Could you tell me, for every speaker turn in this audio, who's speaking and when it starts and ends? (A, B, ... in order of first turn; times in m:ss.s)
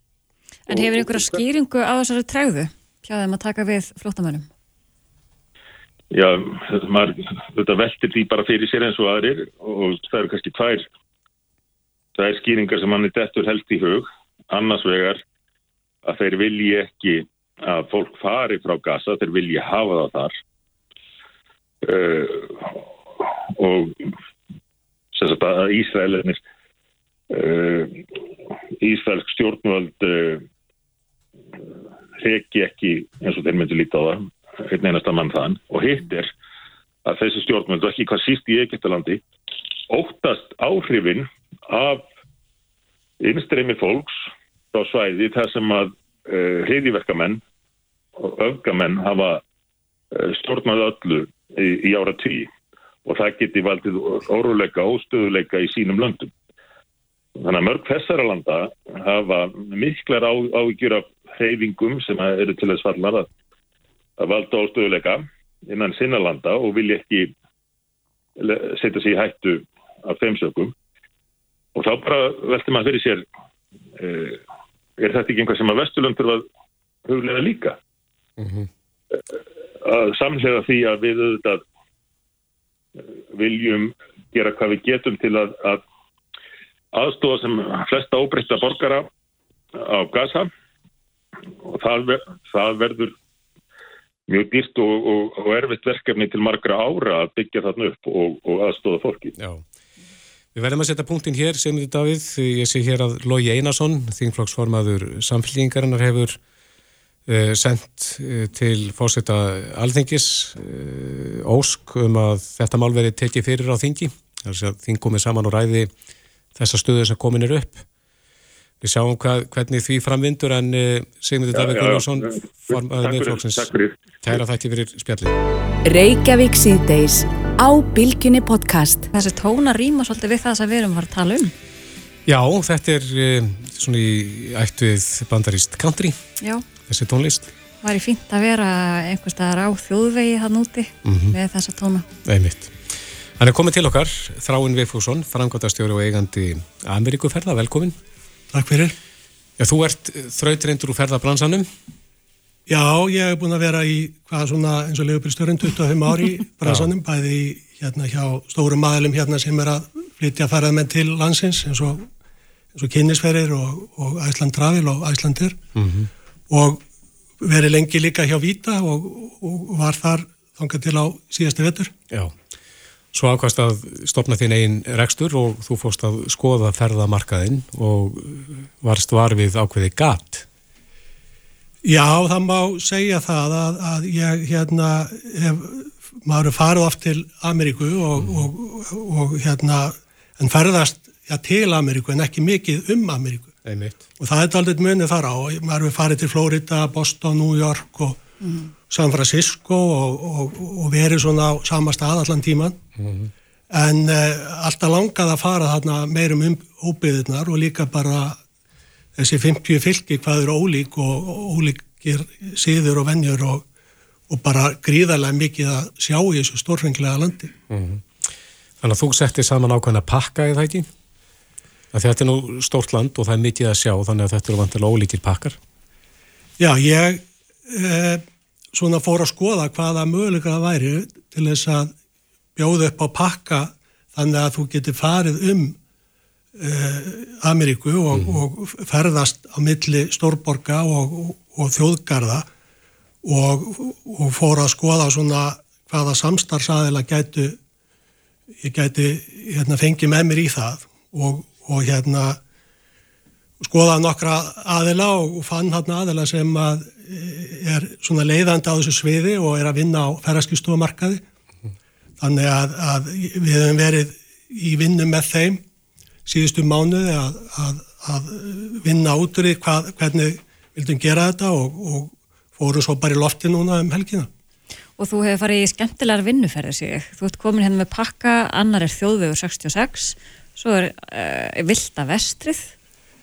0:00.7-0:04.5 A
0:00.7-0:01.4 B
0:06.1-0:10.9 B
0:12.2-0:15.2 B
0:16.0-0:20.3 B
0:21.8-0:22.8 B
0:23.6-0:24.0 B
0:25.1-0:26.4 B
0:27.3-0:28.0 B
0:28.8-0:30.4 B
0:32.2-0:36.3 B
0:37.0-0:39.2 B
0:39.9-0:42.1 B
0:43.2-0:44.1 B
0:44.7-0:47.4 B
0:48.2-0:49.4 B
0:50.1-0:52.5 B
0:53.0-0:56.3 B
0:57.4-1:03.3 B
1:04.2-1:07.3 B
1:08.4-1:10.7 B
1:11.7-1:13.2 B
1:14.0-1:14.4 B
1:15.0-1:16.4 B
1:17.0-1:17.8 B
1:18.4-1:18.7 C
1:19.8-1:21.6 B
1:23.3-1:25.8 B
1:26.9-1:29.1 B
1:29.7-1:30.5 B
1:31.6-1:33.1 B
1:34.3-1:39.3 B
1:39.4-1:39.6 C
1:40.5-1:46.4 C
1:47.3-1:55.9 C
1:56.5-1:57.8 C
1:58.8-2:03.7 C
2:01.5-2:04.4 B
2:04.2-2:05.4 C
2:05.8-2:09.1 D
2:09.1-2:11.5 A
2:12.2-2:16.2 C
2:16.9-2:17.5 C
2:17.8-2:22.0 A
2:21.0-2:21.4 C
2:22.2-2:28.0 C
2:28.5-2:28.9 E
2:29.6-2:31.7 C
2:32.7-2:42.1 E
2:36.6-2:36.9 C
2:42.7-2:45.6 E
2:45.7-2:46.1 C
2:46.5-2:46.8 E
2:47.4-2:51.9 E
2:53.1-3:00.5 C
3:01.8-3:13.6 E
3:08.2-3:08.4 C
3:13.6-3:14.0 C
3:14.2-3:18.2 E
3:18.9-3:22.8 E
3:23.0-3:23.3 C
3:23.7-3:28.4 E
3:29.2-3:33.6 E
3:34.3-3:37.5 E
3:37.7-3:38.0 C
3:38.8-3:40.9 C
3:41.9-3:45.6 C
3:46.6-3:51.9 E
3:52.6-3:55.8 E
3:56.6-4:02.5 E
3:58.1-3:58.4 C
4:03.2-4:07.6 E
4:08.6-4:12.4 E
4:13.6-4:21.2 E
4:22.2-4:25.6 E
4:26.2-4:34.3 E
4:35.0-4:42.7 A